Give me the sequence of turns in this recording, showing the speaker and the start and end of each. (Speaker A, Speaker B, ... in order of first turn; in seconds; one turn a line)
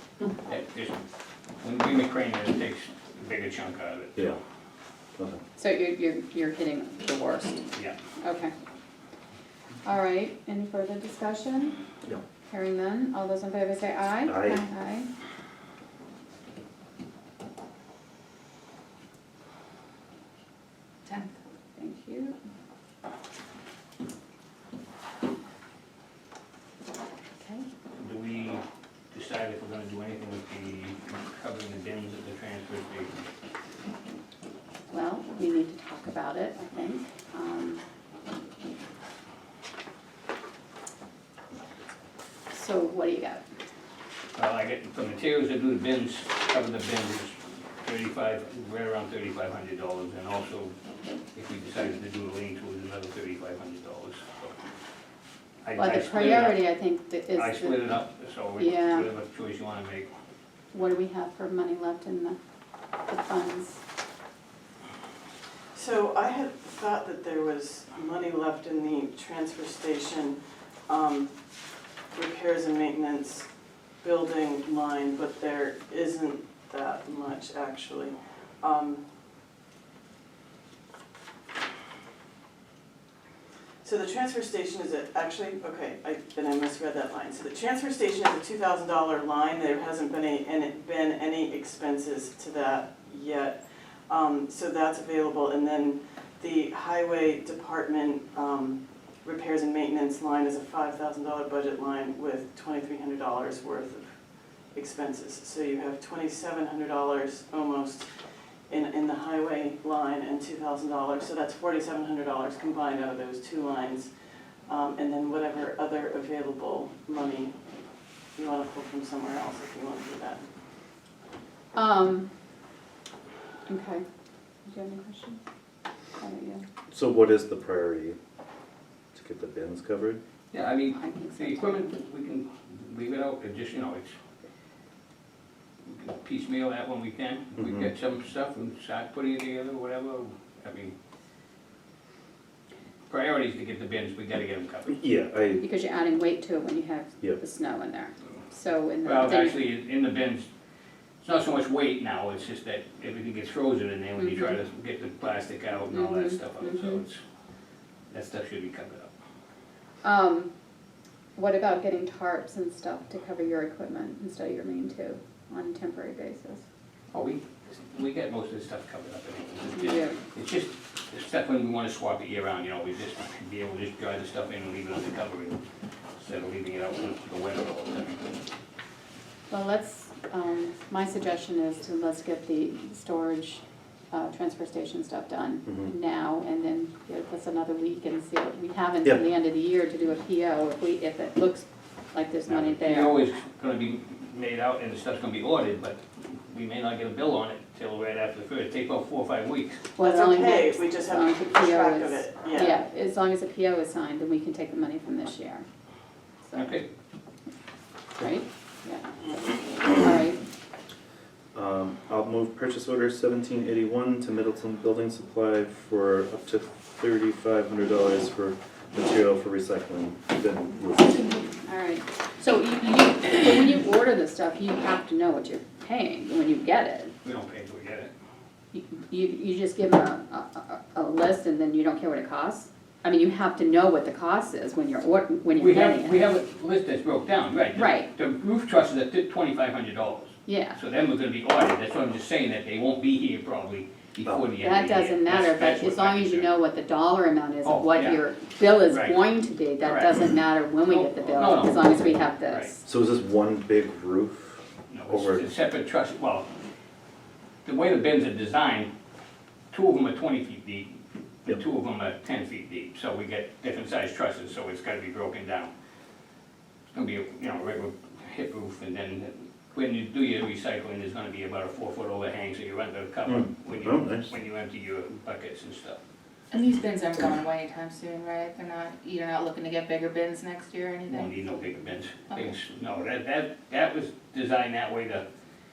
Speaker A: 0.5-1.0
Speaker A: 1.6-4.4
Speaker B: 5.6-7.7
Speaker B: 8.2-8.5
Speaker B: 9.8-11.8
Speaker B: 12.5-15.1
Speaker C: 14.2-14.6
Speaker D: 21.1-21.3
Speaker B: 21.8-22.4
Speaker A: 28.0-33.2
Speaker B: 34.9-37.8
Speaker B: 42.5-43.4
Speaker A: 44.3-50.7
Speaker A: 51.3-54.5
Speaker A: 55.6-56.6
Speaker B: 55.7-57.9
Speaker A: 57.3-60.1
Speaker B: 58.6-59.1
Speaker B: 60.7-62.4
Speaker B: 63.1-63.8
Speaker E: 65.7-71.3
Speaker E: 72.1-73.5
Speaker E: 74.0-79.0
Speaker E: 83.8-108.1
Speaker E: 108.7-114.1
Speaker E: 114.7-117.5
Speaker E: 118.3-120.5
Speaker B: 121.7-122.3
Speaker B: 123.7-124.0
Speaker B: 124.7-125.4
Speaker B: 126.2-126.7
Speaker C: 126.9-128.2
Speaker C: 129.1-130.2
Speaker A: 130.5-134.1
Speaker B: 130.9-132.0
Speaker A: 135.9-140.9
Speaker C: 137.6-137.9
Speaker A: 143.1-145.0
Speaker C: 144.9-145.6
Speaker B: 145.6-149.6
Speaker A: 149.0-150.5
Speaker A: 151.2-157.2
Speaker B: 154.2-154.6
Speaker B: 155.9-157.0
Speaker A: 158.1-159.1
Speaker B: 160.0-160.5
Speaker B: 161.3-166.6
Speaker A: 167.1-175.6
Speaker B: 169.7-170.2
Speaker A: 176.2-178.3
Speaker B: 179.5-193.2
Speaker A: 192.5-199.8
Speaker B: 200.0-205.6
Speaker E: 200.0-202.8
Speaker B: 206.4-206.8
Speaker A: 206.5-206.8
Speaker B: 208.2-210.4
Speaker C: 211.5-221.2
Speaker B: 221.3-227.1
Speaker A: 227.2-228.1
Speaker B: 228.7-236.3
Speaker A: 235.5-246.5
Speaker B: 237.7-238.1
Speaker B: 240.4-240.8
Speaker B: 244.6-252.8
Speaker A: 247.6-248.2
Speaker A: 248.8-249.3
Speaker A: 249.8-250.2
Speaker A: 250.8-252.7
Speaker C: 252.8-255.4
Speaker A: 254.9-256.5
Speaker A: 257.6-258.9
Speaker A: 259.7-260.9
Speaker A: 261.4-265.7
Speaker A: 266.9-276.0
Speaker C: 273.2-274.3
Speaker D: 276.5-281.8
Speaker A: 281.1-285.2
Speaker D: 282.3-282.5